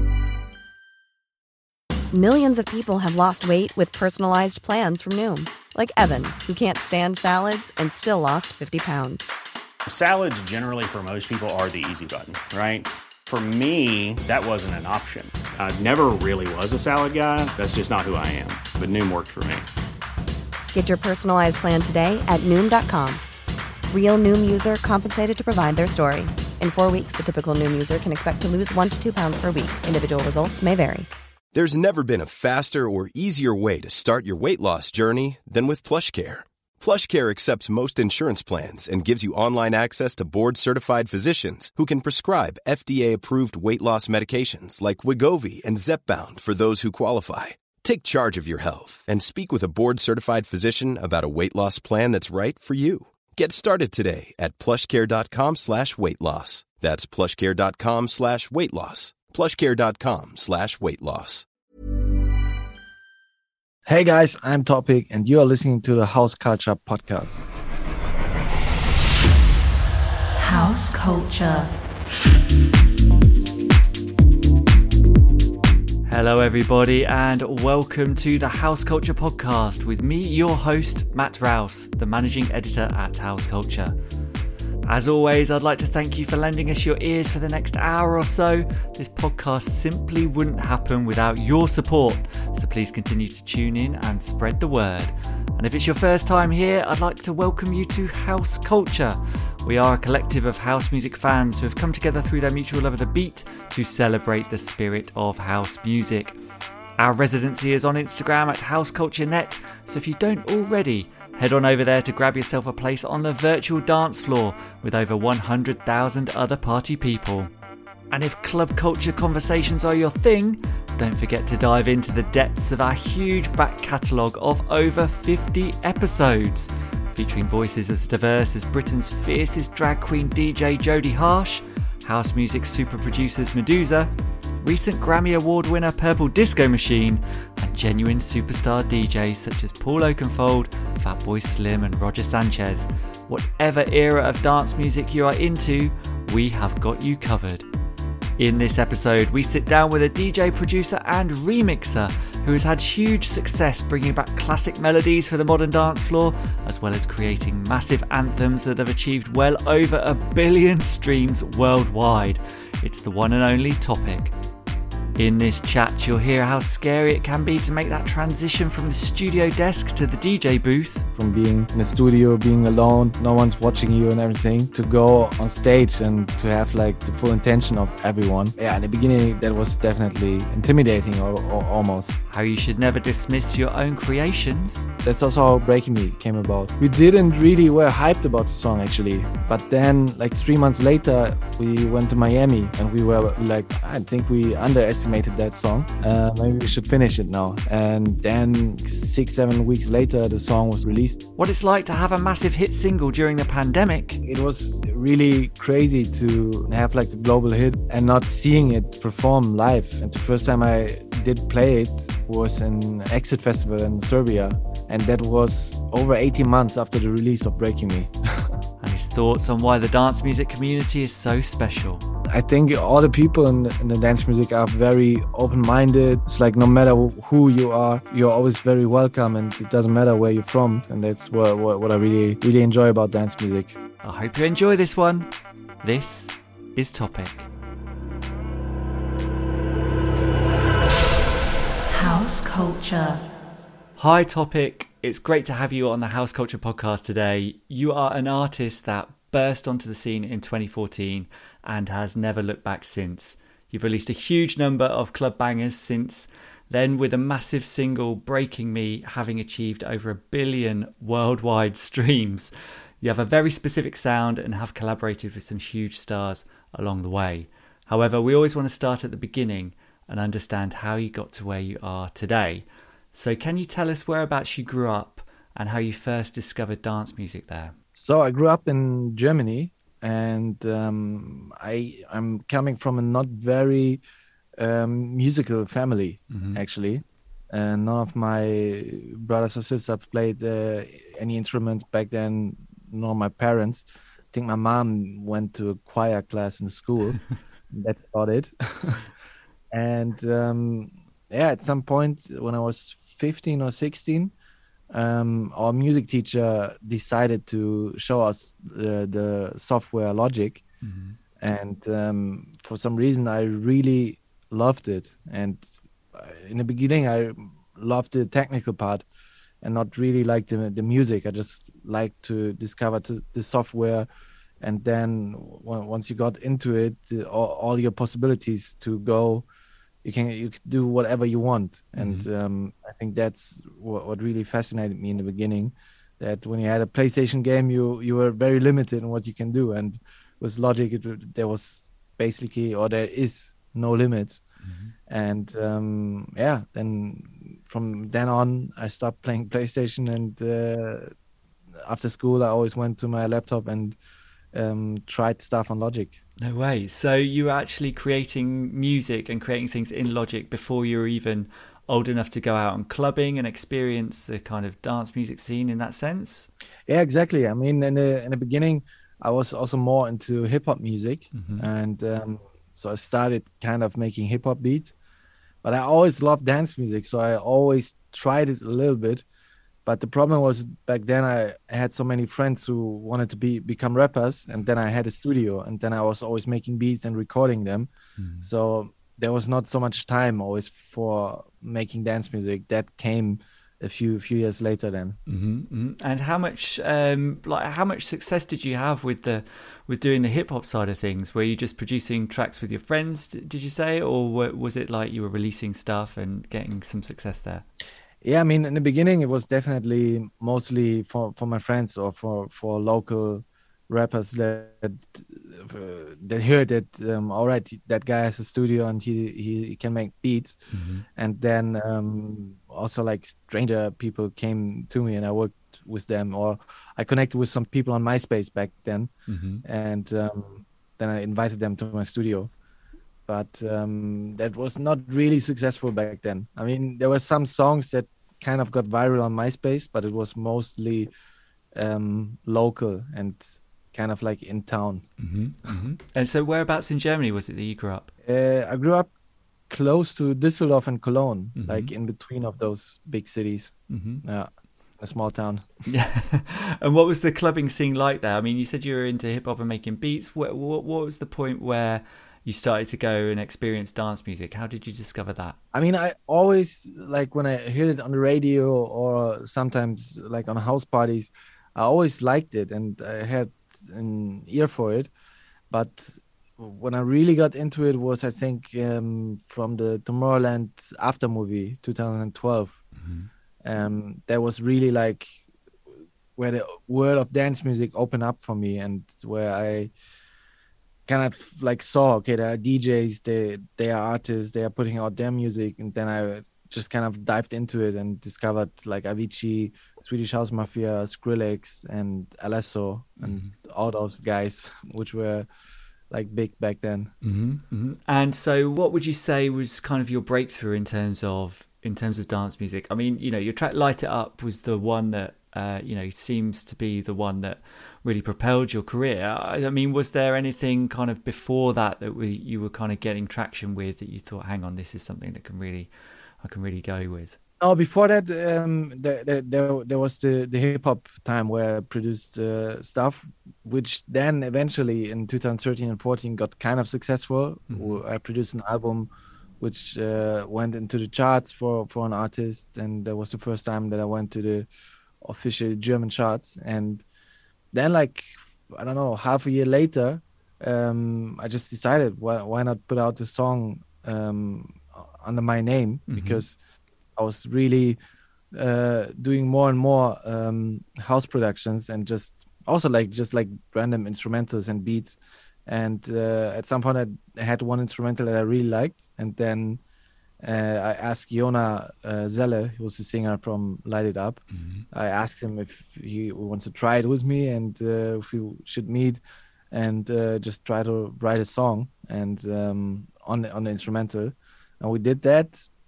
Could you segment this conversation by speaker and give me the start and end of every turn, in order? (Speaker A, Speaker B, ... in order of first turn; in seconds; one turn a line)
Speaker A: 2.1-9.3
Speaker B: 9.8-19.6
Speaker A: 20.7-23.2
Speaker A: 23.9-31.1
Speaker C: 31.5-61.4
Speaker D: 63.9-67.4
Speaker E: 70.4-71.7
Speaker E: 76.0-84.0
Speaker E: 84.8-106.4
Speaker E: 107.0-117.5
Speaker E: 118.1-147.7
Speaker E: 148.4-164.3
Speaker E: 165.2-171.0
Speaker D: 171.2-182.2
Speaker E: 182.3-184.9
Speaker D: 185.0-201.2
Speaker E: 201.4-204.2
Speaker D: 204.2-218.6
Speaker E: 218.8-222.0
Speaker D: 222.3-233.7
Speaker E: 234.0-235.3
Speaker E: 235.8-237.5
Speaker E: 241.9-243.2
Speaker E: 244.0-277.7
Speaker D: 277.9-284.0
Speaker D: 284.6-297.2
Speaker E: 286.3-286.6
Speaker D: 297.7-299.1
Speaker D: 299.7-304.3
Speaker D: 304.9-310.6
Speaker E: 310.8-311.2
Speaker D: 311.4-319.0
Speaker D: 319.6-324.1
Speaker D: 324.6-329.4
Speaker D: 330.0-344.4
Speaker E: 332.0-332.3
Speaker E: 344.6-344.9
Speaker D: 345.1-351.1
Speaker D: 351.8-354.0
Speaker D: 354.5-356.1
Speaker E: 356.4-366.5
Speaker D: 366.9-374.9
Speaker E: 371.3-371.7
Speaker D: 375.6-379.2
Speaker D: 379.8-387.9
Speaker E: 388.2-388.5
Speaker D: 388.4-395.2
Speaker E: 395.3-407.6
Speaker D: 408.2-420.6
Speaker E: 420.7-421.1
Speaker D: 421.1-429.1
Speaker E: 429.3-429.6
Speaker D: 429.6-432.5
Speaker D: 433.3-441.1
Speaker D: 441.7-443.4
Speaker D: 443.9-445.1
Speaker E: 445.2-448.1
Speaker D: 448.2-449.1
Speaker D: 449.7-455.7
Speaker E: 451.6-451.9
Speaker E: 453.9-454.2
Speaker E: 455.9-465.6
Speaker D: 465.7-475.1
Speaker D: 475.7-482.8
Speaker E: 482.9-483.3
Speaker D: 483.6-485.3
Speaker D: 486.4-489.9
Speaker D: 491.1-505.5
Speaker E: 503.2-503.5
Speaker D: 506.1-507.1
Speaker E: 507.2-525.9
Speaker E: 526.4-527.4
Speaker D: 527.6-539.1
Speaker E: 537.7-538.0
Speaker D: 539.6-544.7
Speaker D: 545.2-547.0
Speaker D: 547.7-556.5
Speaker E: 556.1-556.4
Speaker D: 557.1-558.0
Speaker D: 558.5-569.8
Speaker D: 570.4-585.7
Speaker E: 574.5-574.9